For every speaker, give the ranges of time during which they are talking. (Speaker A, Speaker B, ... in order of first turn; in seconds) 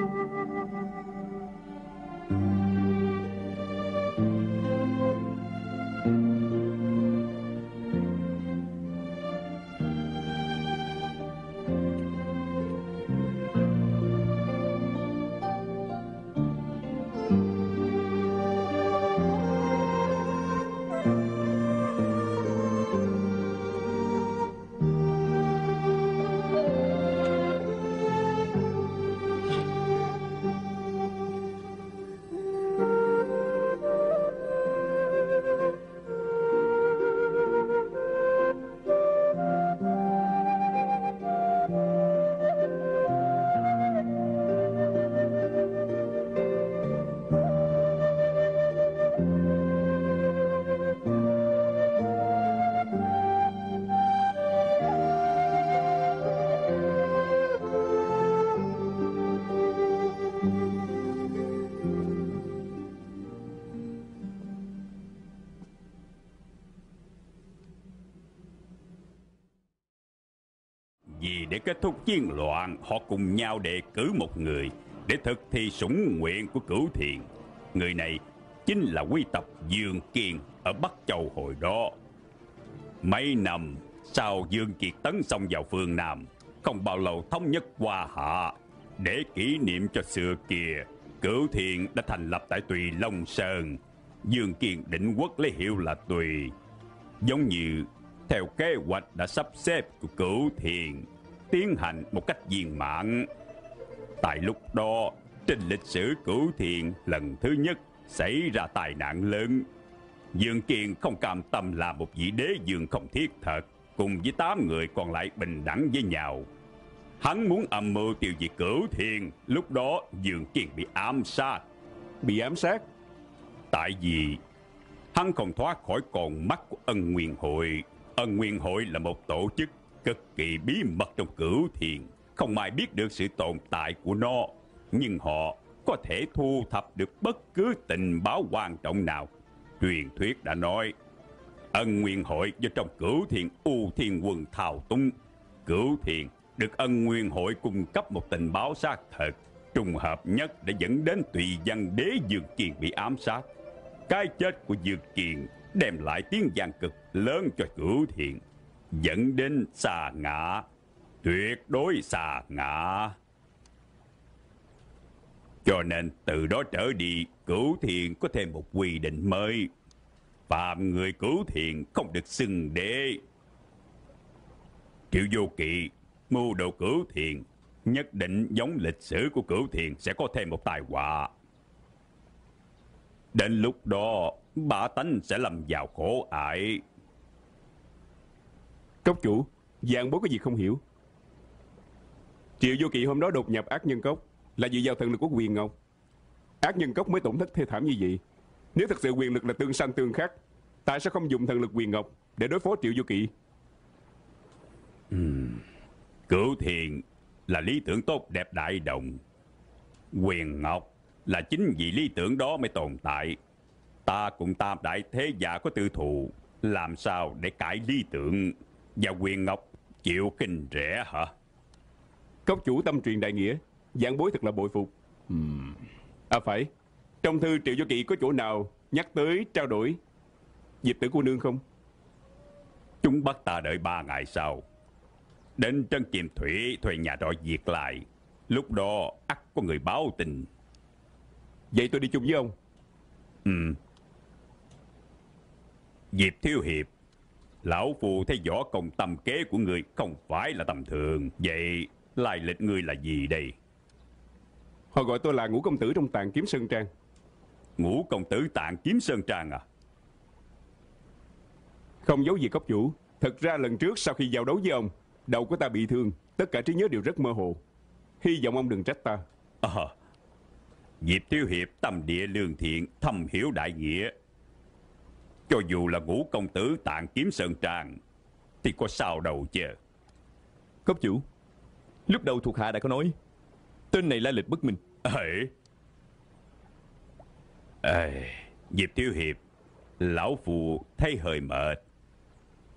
Speaker A: 71.2-82.0, 83.0-96.5, 97.2-103.3, 104.2-109.7, 110.3-116.5, 117.2-121.7, 123.7-124.4, 125.1-140.9, 141.7-145.1, 145.7-153.4, 154.1-158.4, 158.9-160.7, 161.2-163.2, 165.6-169.7, 170.5-173.2, 175.1-181.3, 183.3-186.8, 205.1-205.6, 206.3-209.2, 210.1-213.4, 214.1-221.3, 233.0-234.6, 235.6-240.5, 243.4-243.8, 246.1-246.9, 247.6-253.5, 257.8-259.6, 269.6-269.9, 271.0-274.1, 275.5-278.0, 278.6-279.8, 285.1-285.5, 287.8-289.4, 290.0-291.8
Speaker B: 122.2-122.8, 189.1-190.8, 192.6-195.7, 196.6-198.2, 198.8-203.3, 222.5-226.7, 227.2-230.0, 230.8-231.6, 241.7-242.5, 254.9-256.9, 262.0-267.6, 268.2-269.2
Speaker C: 280.9-281.2, 282.1-283.1, 283.9-284.8